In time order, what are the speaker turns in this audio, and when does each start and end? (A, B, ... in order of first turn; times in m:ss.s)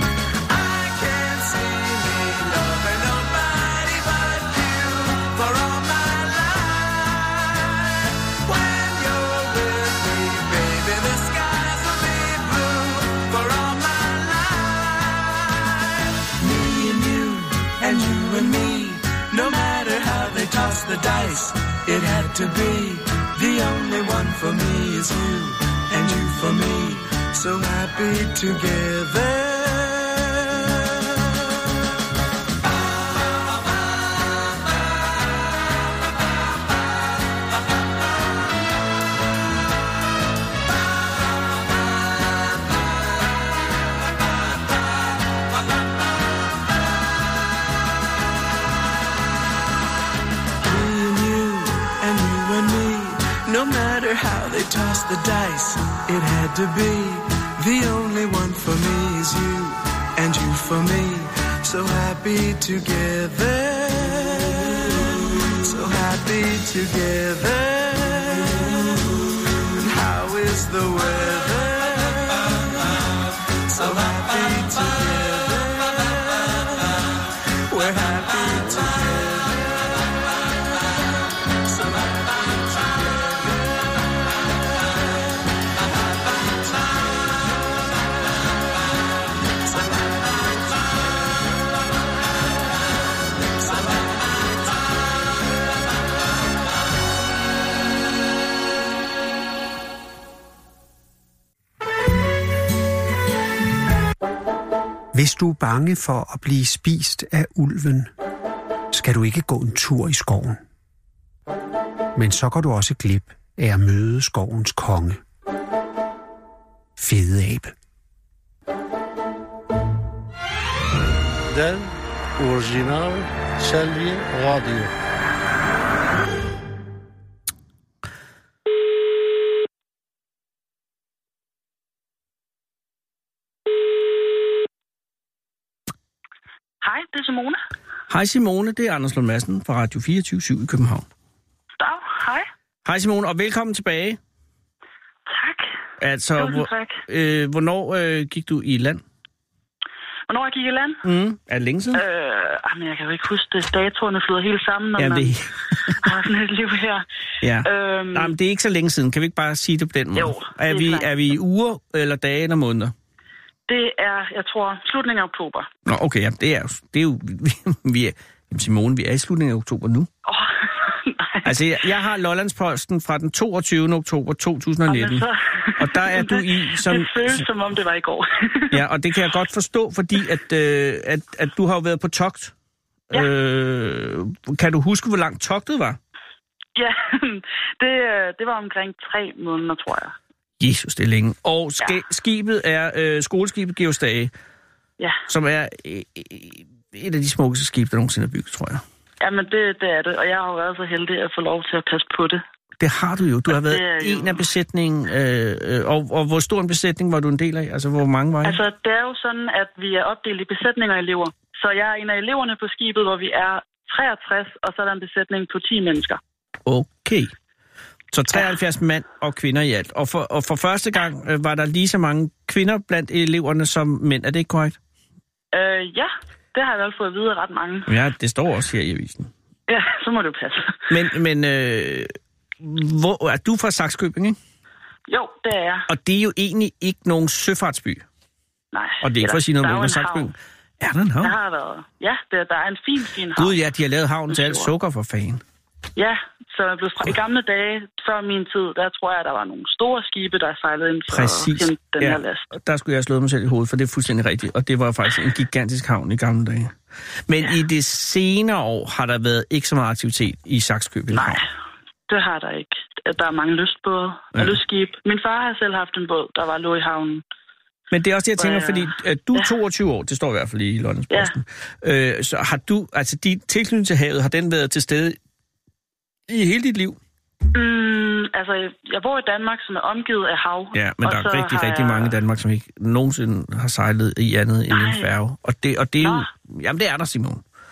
0:00.5-0:15.8 A
0:16.4-0:30.8 A
0:50.6-1:12.8 A
1:13.7-1:17.1 A
1:17.7-1:19.8 A
1:21.6-1:23.7 A
1:29.8-1:30.3 A
1:45.1-1:48.1 B
1:48.9-1:50.6 B
1:52.2-1:55.2 B
1:57.0-1:57.7 B
2:01.5-2:04.9 C
2:16.8-2:17.6 D
2:18.1-2:21.1 E
2:21.8-2:22.5 D
2:22.8-2:24.2 E
2:25.3-2:25.7 D
2:26.0-2:29.0 E
2:26.4-2:27.0 D
2:30.3-2:31.0 D
2:31.0-2:32.0 E
2:31.9-2:35.4 D
2:35.0-2:35.9 E
2:36.0-2:37.0 D
2:37.4-2:42.9 E
2:37.6-2:38.3 D
2:40.2-2:41.1 D
2:43.7-2:45.7 D
2:45.9-2:50.1 E
2:50.2-2:51.6 D
2:51.4-2:55.3 E
2:54.9-2:58.8 D
2:55.8-2:57.4 E
2:58.7-3:02.5 E
3:03.1-3:06.0 E
3:06.8-3:10.2 D
3:10.6-3:14.3 E
3:15.0-3:15.2 D
3:15.3-3:18.8 E
3:19.2-3:22.4 D
3:22.8-3:28.6 E
3:23.5-3:24.4 D
3:28.4-3:36.2 D
3:36.7-3:37.3 E
3:38.1-3:44.8 E
3:45.5-3:47.9 D
3:47.9-3:49.3 E
3:49.7-3:50.9 D
3:50.9-3:54.4 E
3:55.1-3:55.9 D
3:55.9-3:58.0 E
3:58.7-4:00.3 D
3:59.0-4:01.4 E
4:01.2-4:03.6 D
4:03.4-4:05.4 E
4:04.3-4:04.7 D
4:06.0-4:12.5 D
4:11.1-4:16.8 E
4:17.3-4:21.4 E
4:21.1-4:21.5 D
4:22.1-4:27.2 D
4:27.9-4:35.2 E
4:28.4-4:29.5 D
4:36.3-4:37.0 E
4:37.5-4:42.2 D
4:40.7-4:47.4 E
4:44.7-4:45.1 D
4:46.0-4:46.3 D